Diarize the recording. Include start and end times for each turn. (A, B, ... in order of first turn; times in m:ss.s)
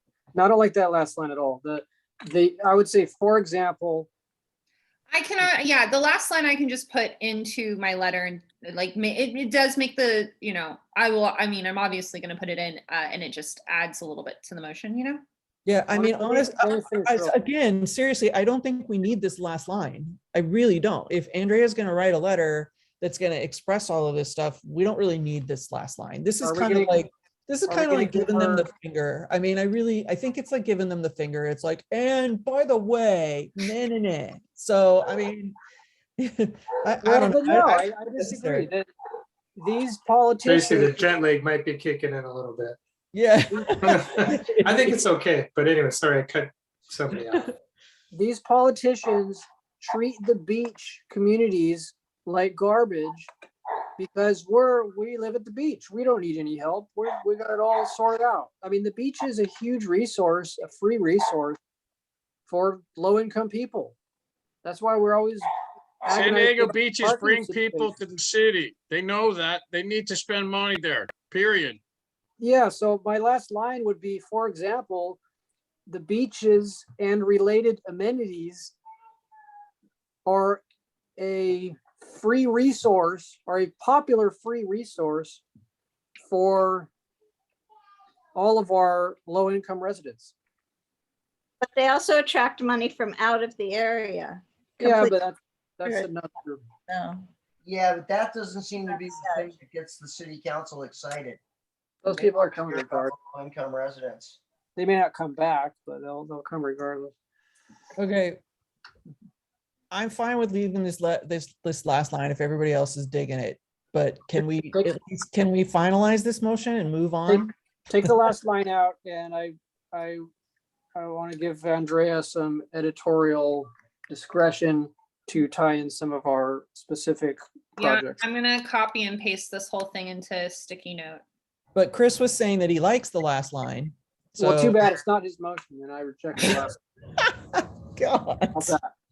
0:00.3-0:04.1 A
0:05.1-0:15.2 B
0:15.7-0:35.6 C
0:15.9-0:17.4 A
0:26.4-0:27.0 A
0:27.7-0:28.7 A
0:36.2-0:38.7 C
0:37.0-0:38.9 A
0:39.6-0:41.0 A
0:40.4-0:42.8 D
0:43.1-0:45.0 C
0:43.8-0:47.5 D
0:48.1-0:53.3 A
0:54.0-1:01.6 A
1:02.5-1:04.0 A
1:04.6-1:05.4 A
1:06.0-1:07.9 A
1:06.1-1:11.8 E
1:12.4-1:15.2 A
1:15.9-1:18.7 A
1:20.2-1:20.6 A
1:21.2-1:25.4 A
1:26.3-1:26.9 A
1:28.3-1:30.3 A
1:31.6-1:35.2 F
1:34.8-1:36.6 A
1:35.8-1:36.1 F
1:36.9-1:37.2 F
1:37.6-1:41.4 G
1:38.8-1:39.5 F
1:42.0-1:43.1 A
1:42.2-1:44.4 G
1:44.8-1:47.1 A
1:48.0-1:48.4 C
1:49.9-1:57.5 C
1:57.3-2:00.2 A
2:00.9-2:08.2 A
2:07.8-2:11.2 B
2:11.8-2:14.9 C
2:14.4-2:16.8 A
2:17.2-2:18.8 C
2:18.5-2:18.8 A